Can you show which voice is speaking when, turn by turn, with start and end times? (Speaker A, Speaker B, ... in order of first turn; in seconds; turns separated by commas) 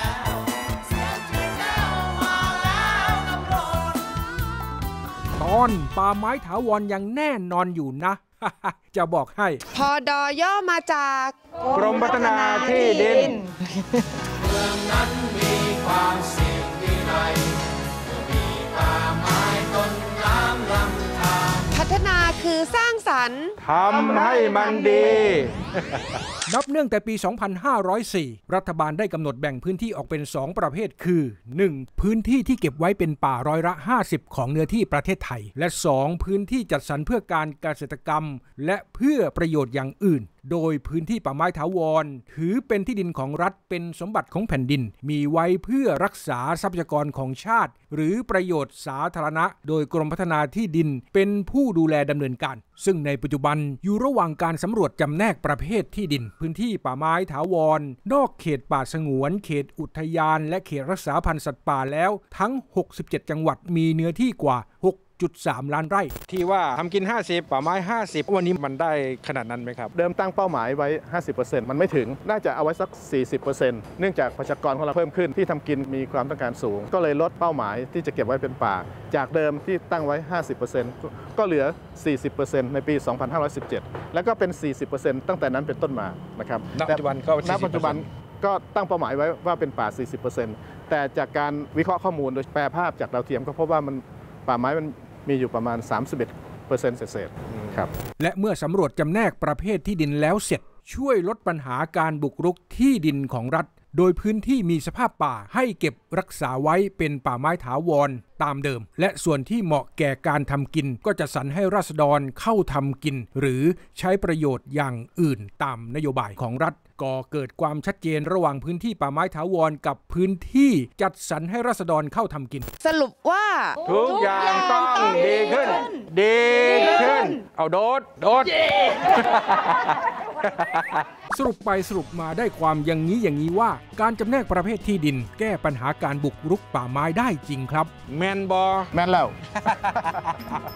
Speaker A: 2.9-3.5, Speaker B: 5.4-9.6, Speaker A: 9.7-14.2, Speaker C: 11.7-13.4, Speaker A: 14.9-15.7, Speaker C: 15.8-16.2, Speaker A: 18.9-23.6, Speaker C: 23.6-26.2, Speaker B: 26.5-66.2, Speaker C: 66.3-69.9, Speaker D: 69.9-97.9, Speaker C: 86.8-88.0, Speaker B: 98.2-122.7, Speaker A: 122.8-125.4, Speaker C: 123.8-131.1, Speaker B: 131.3-137.9, Speaker C: 138.1-138.9, Speaker D: 138.9-140.2, Speaker C: 139.7-139.9